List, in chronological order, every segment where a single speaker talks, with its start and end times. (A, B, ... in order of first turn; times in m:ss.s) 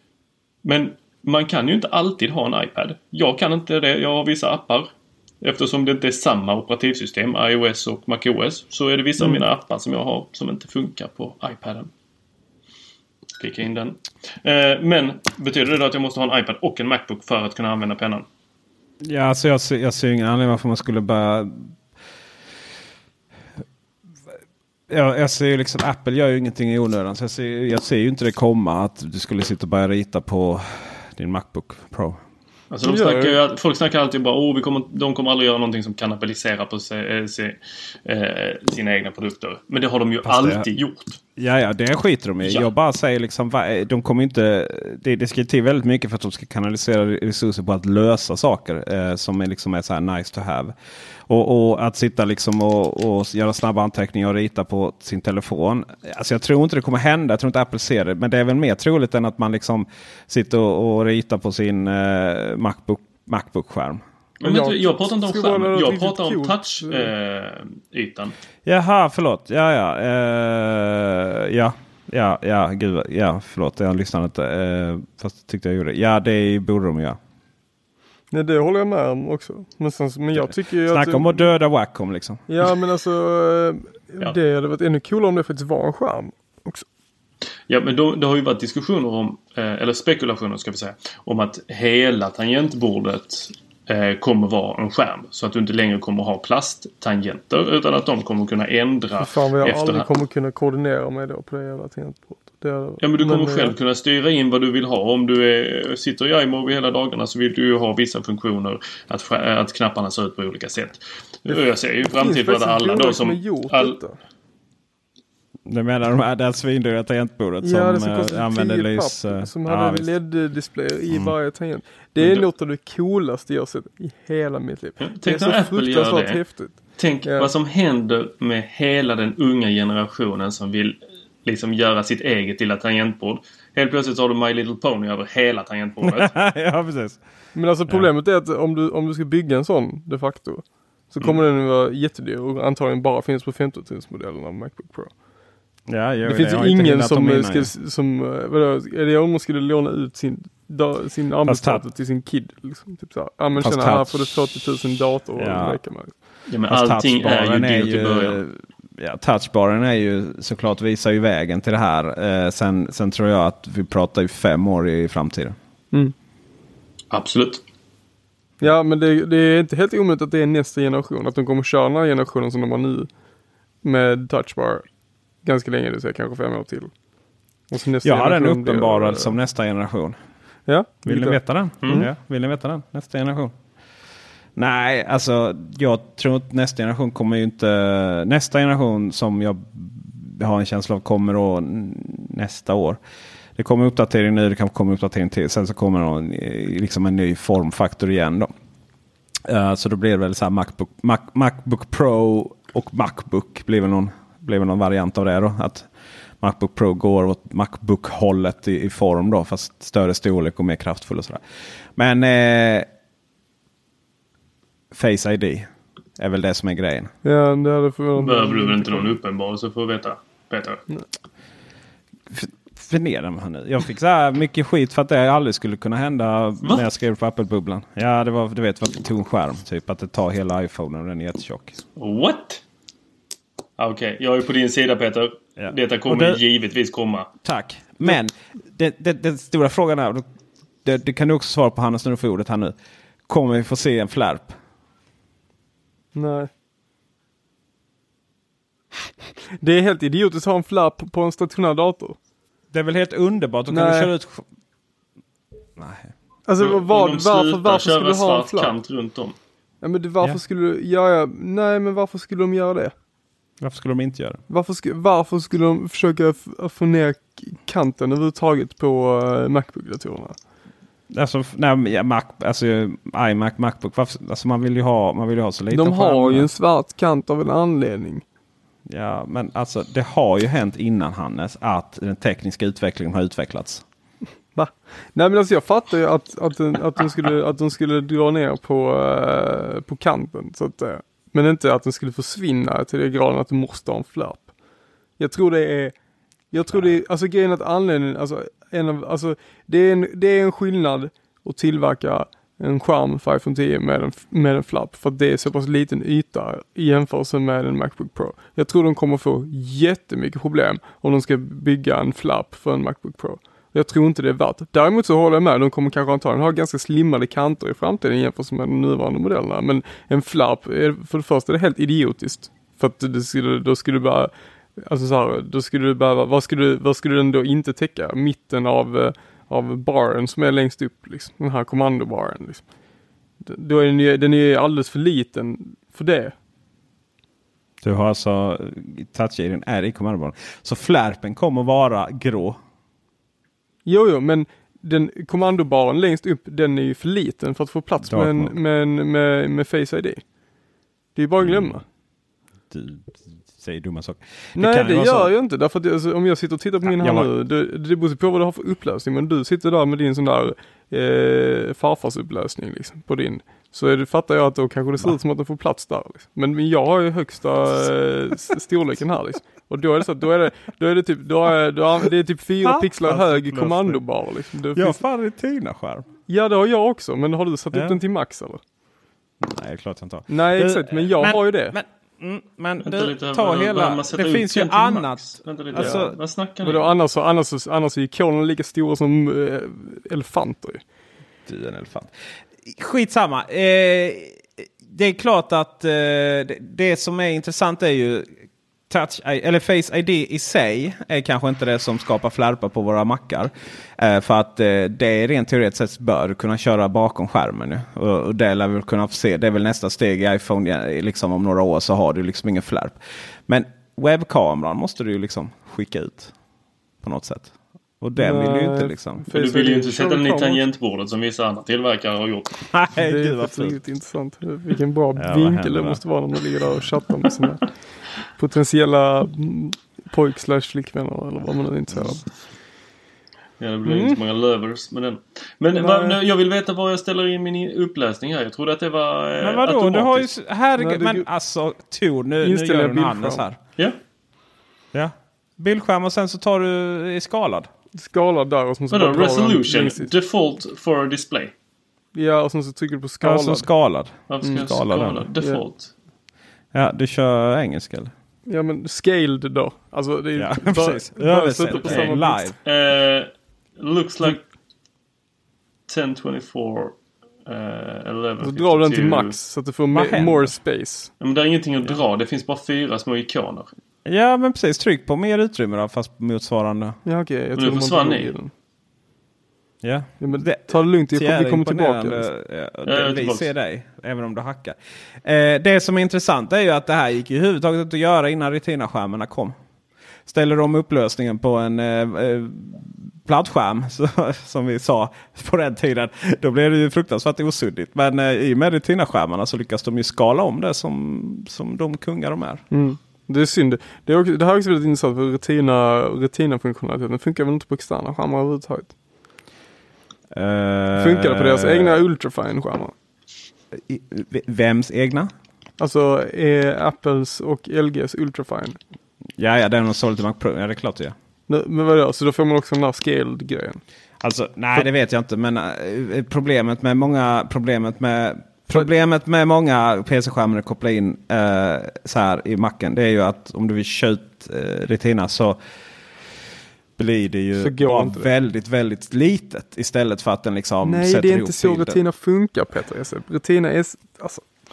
0:00.6-0:04.9 A
0:05.4-0:11.9 A
0:13.4-0:18.2 A
0:19.0-0:21.7 B
0:24.9-0:32.2 B
0:32.7-0:41.2 A
0:32.8-0:33.3 C
0:40.2-0:40.7 B
0:41.4-0:50.7 B
0:42.4-0:42.7 A
0:51.3-1:04.0 B
1:04.4-1:08.3 A
1:04.4-1:07.1 C
1:08.6-1:17.2 B
1:18.3-1:21.5 C
1:20.4-1:22.4 B
1:22.5-1:26.8 C
1:27.7-1:40.0 A
1:39.2-1:43.7 C
1:43.0-1:54.0 A
1:51.5-1:54.2 C
1:55.6-2:00.1 B
1:57.6-2:07.5 C
2:02.2-2:02.4 A
2:05.0-2:06.4 A
2:07.0-2:16.3 A
2:16.0-2:17.2 B
2:17.5-2:25.1 C
2:25.9-2:27.7 B
2:26.2-2:36.1 C
2:31.4-2:31.8 B
2:33.6-2:34.2 B
2:35.4-2:35.8 B
2:36.5-2:38.4 A
2:36.7-2:45.6 B
2:47.1-2:47.6 A
2:48.6-2:53.1 C
2:53.8-2:54.8 C
2:55.4-2:56.9 C
2:57.7-2:59.3 C
2:58.0-3:00.2 B
3:00.7-3:02.1 C
3:01.0-3:03.5 B
3:04.5-3:13.0 B
3:13.6-3:18.5 B
3:19.4-3:25.9 B
3:26.4-3:31.4 B
3:31.9-3:32.9 B
3:34.9-3:37.1 B
3:37.2-3:39.2 C
3:38.2-3:40.8 A
3:42.3-3:51.8 B
3:52.0-3:52.6 A
3:53.8-3:57.3 A
3:55.6-3:56.4 B
3:57.4-4:00.2 B
4:00.8-4:02.7 B
4:03.3-4:04.6 B
4:06.1-4:06.5 C
4:09.6-4:12.2 C
4:12.7-4:14.4 B
4:13.7-4:14.1 C
4:15.8-4:16.1 B
4:16.5-4:18.7 C
4:16.6-4:19.4 A
4:19.8-4:22.9 C
4:23.6-4:24.4 B
4:24.5-4:30.4 C
4:31.1-4:36.5 B
4:35.7-4:38.2 C
4:38.9-4:43.8 B
4:44.5-4:54.5 C
4:55.2-4:55.9 C
4:56.5-5:32.6 C
5:33.4-5:36.3 C
5:37.8-5:42.6 B
5:43.8-5:50.2 C
5:48.0-5:48.5 B
5:51.1-5:51.8 C
5:51.4-5:51.8 B
5:52.7-5:55.3 B
5:54.6-6:15.0 C
5:56.8-5:57.3 B
6:12.6-6:14.0 B
6:14.7-6:16.0 B
6:16.3-6:18.6 C
6:17.7-6:18.0 B
6:19.4-6:26.2 B
6:20.3-6:21.7 C
6:22.8-6:26.9 A
6:25.8-6:26.0 C
6:26.6-6:30.8 C
6:31.5-6:56.3 B
6:57.0-6:59.2 B
6:58.2-7:00.6 C
6:59.3-7:02.6 A
7:02.7-7:03.8 B
7:03.0-7:07.6 C
7:05.2-7:06.0 B
7:08.4-7:12.2 C
7:13.6-7:20.3 A
7:13.8-7:14.2 C
7:15.8-7:16.2 C
7:19.4-7:23.6 B
7:20.8-7:21.3 C
7:22.4-7:23.4 C
7:24.9-7:27.7 B
7:27.9-7:30.1 C
7:28.9-7:31.5 A
7:32.1-7:33.7 C
7:33.2-7:35.3 B
7:34.3-7:35.9 A
7:36.7-7:38.1 B
7:38.4-7:42.5 C
7:40.4-7:42.6 B
7:41.8-7:44.4 A
7:45.9-7:49.4 A
7:48.4-7:51.1 C
7:49.9-7:50.6 B
7:51.2-7:53.7 A
7:54.0-7:57.0 B
7:57.0-7:58.5 C
7:57.6-7:58.3 A
7:59.8-8:09.6 B
8:00.2-8:02.3 C
8:02.8-8:03.5 A
8:10.3-8:22.6 B
8:22.7-8:28.9 C
8:30.3-8:32.0 B
8:30.9-8:32.9 C
8:33.7-8:35.3 B
8:35.8-8:38.8 C
8:39.4-8:41.1 B
8:41.5-8:43.8 C
8:44.2-8:55.6 B
8:57.0-9:02.0 B
8:57.6-8:58.3 C
9:00.8-9:04.4 C